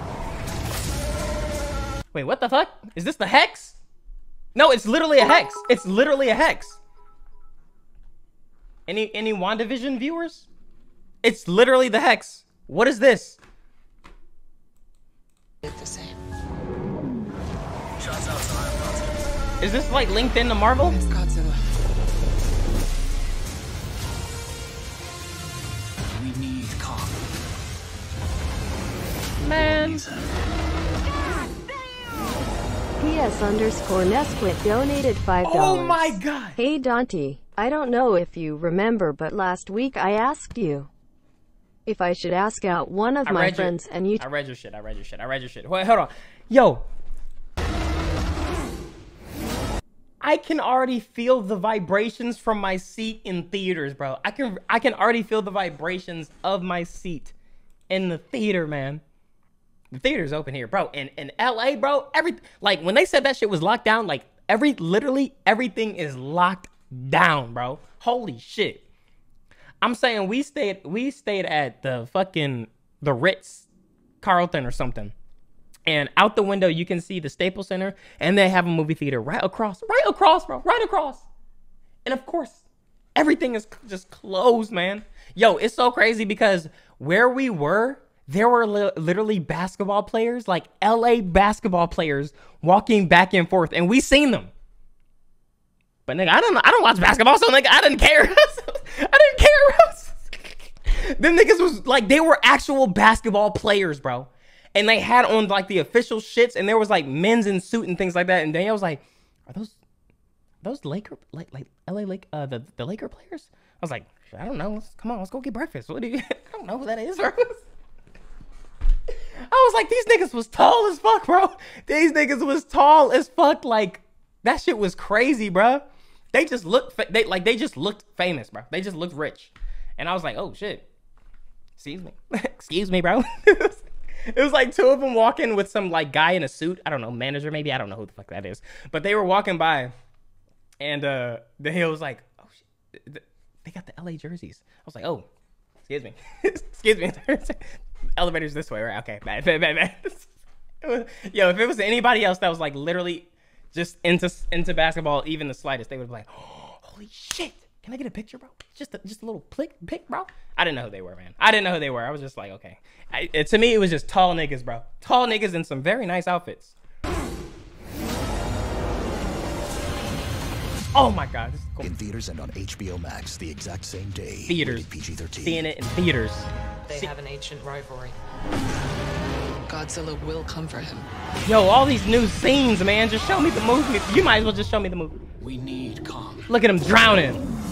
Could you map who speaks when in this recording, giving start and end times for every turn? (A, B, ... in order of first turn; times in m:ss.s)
0:02.1-0:03.8 A
0:04.6-0:06.8 A
0:08.9-0:10.5 A
0:11.2-0:13.4 A
0:15.6-0:16.2 B
0:19.6-0:21.0 A
0:20.8-0:21.6 B
0:26.1-0:27.2 C
0:29.4-0:30.0 A
0:29.5-0:30.3 C
0:33.0-0:40.9 D
0:35.4-0:36.6 A
0:41.9-0:44.2 D
0:43.3-0:46.8 A
0:50.2-0:57.3 A
0:57.9-0:59.0 A
0:59.9-1:08.8 A
1:09.8-1:13.7 A
1:14.2-1:15.1 A
1:15.9-1:21.2 A
1:22.0-1:22.6 A
1:23.2-1:34.5 A
1:36.1-1:49.8 A
1:50.6-1:57.6 A
1:59.4-2:10.9 A
2:11.8-2:19.9 A
2:20.8-2:25.3 A
2:25.9-2:30.3 A
2:30.8-2:46.7 A
2:50.9-2:51.9 A
2:51.8-2:55.7 E
2:54.5-2:57.1 A
2:56.9-2:58.2 B
2:59.7-3:01.1 B
3:01.4-3:05.2 A
3:05.4-3:06.5 C
3:06.5-3:07.4 A